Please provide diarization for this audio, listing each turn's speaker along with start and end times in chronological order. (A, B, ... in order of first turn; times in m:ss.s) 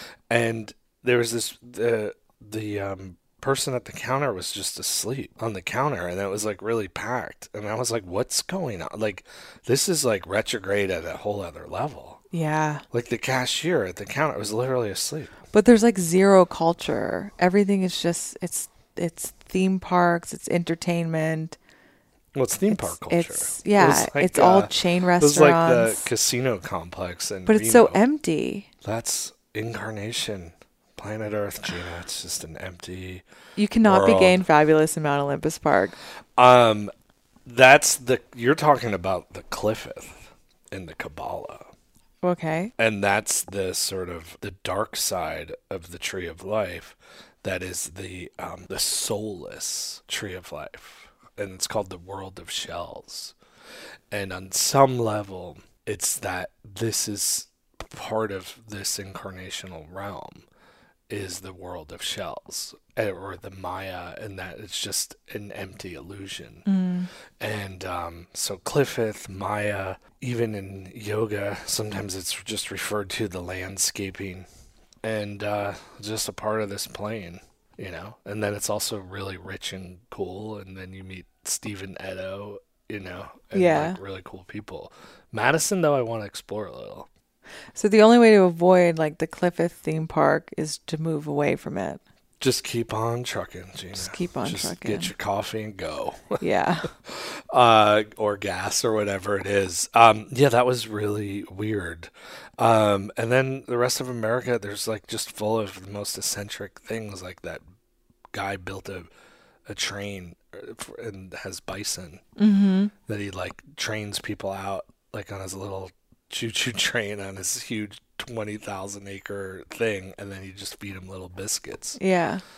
0:00.3-0:12.2 A
0:12.3-0:12.8 B
0:12.9-0:15.3 A
0:15.5-0:21.6 B
0:22.4-0:28.0 A
0:22.7-0:26.1 B
0:27.5-0:28.7 B
0:28.8-0:33.2 A
0:33.6-0:36.0 B
0:33.8-0:34.4 A
0:36.4-0:36.9 A
0:37.4-0:41.7 A
0:42.2-0:42.7 B
0:42.8-0:53.4 A
0:54.1-1:00.4 A
1:01.1-1:06.6 A
1:06.7-1:07.1 B
1:07.4-1:14.5 A
1:15.0-1:27.1 A
1:23.5-1:24.0 B
1:27.8-1:32.0 B
1:32.4-1:36.4 A
1:34.0-1:35.1 B
1:36.4-1:36.9 B
1:37.0-1:47.6 A
1:48.3-1:49.1 A
1:49.7-1:52.2 A
1:52.4-1:52.9 B
1:53.1-2:02.0 A
2:02.0-2:02.4 B